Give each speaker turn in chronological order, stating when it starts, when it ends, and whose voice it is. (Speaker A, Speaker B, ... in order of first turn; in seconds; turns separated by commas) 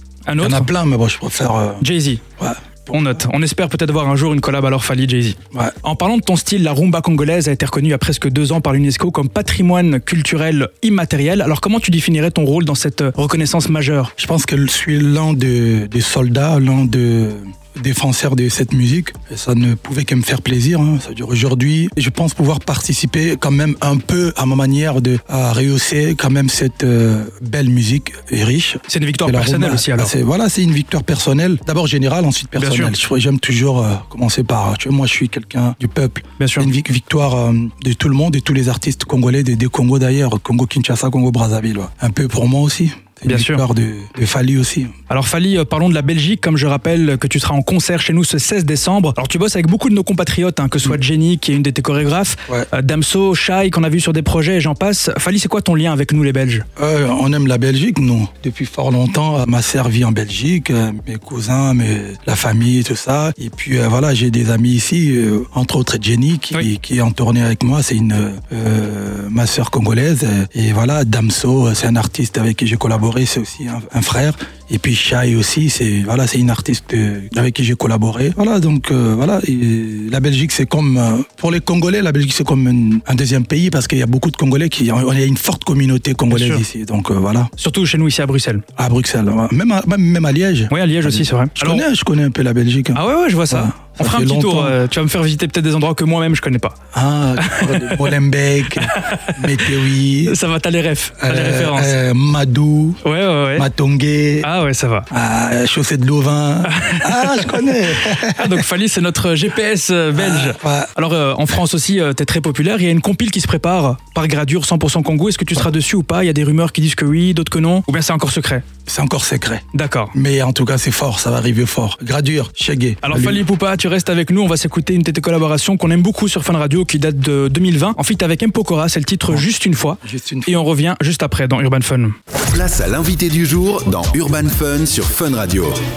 Speaker A: 0.3-0.7, Speaker B: 0.4-1.8, Speaker A: 1.8-2.2, Speaker B: 2.4-3.0, Speaker A: 2.9-14.1, Speaker B: 14.2-44.9, Speaker A: 28.9-30.1, Speaker A: 32.6-33.0, Speaker A: 36.4-36.7, Speaker A: 43.2-43.6, Speaker A: 45.1-56.6, Speaker B: 56.8-87.5, Speaker A: 86.3-86.6, Speaker A: 87.6-88.6, Speaker B: 88.8-94.8, Speaker A: 90.7-91.8, Speaker A: 93.0-96.8, Speaker B: 96.9-100.4, Speaker A: 97.4-98.1, Speaker A: 98.8-99.7, Speaker A: 100.2-102.0, Speaker B: 101.2-103.0, Speaker A: 103.0-103.7, Speaker B: 103.5-104.5, Speaker A: 104.4-105.1, Speaker B: 105.1-108.6, Speaker A: 106.7-118.7, Speaker B: 110.2-110.9, Speaker B: 118.8-123.4, Speaker A: 119.7-120.1, Speaker A: 123.0-132.2, Speaker B: 130.0-130.6, Speaker C: 132.4-135.8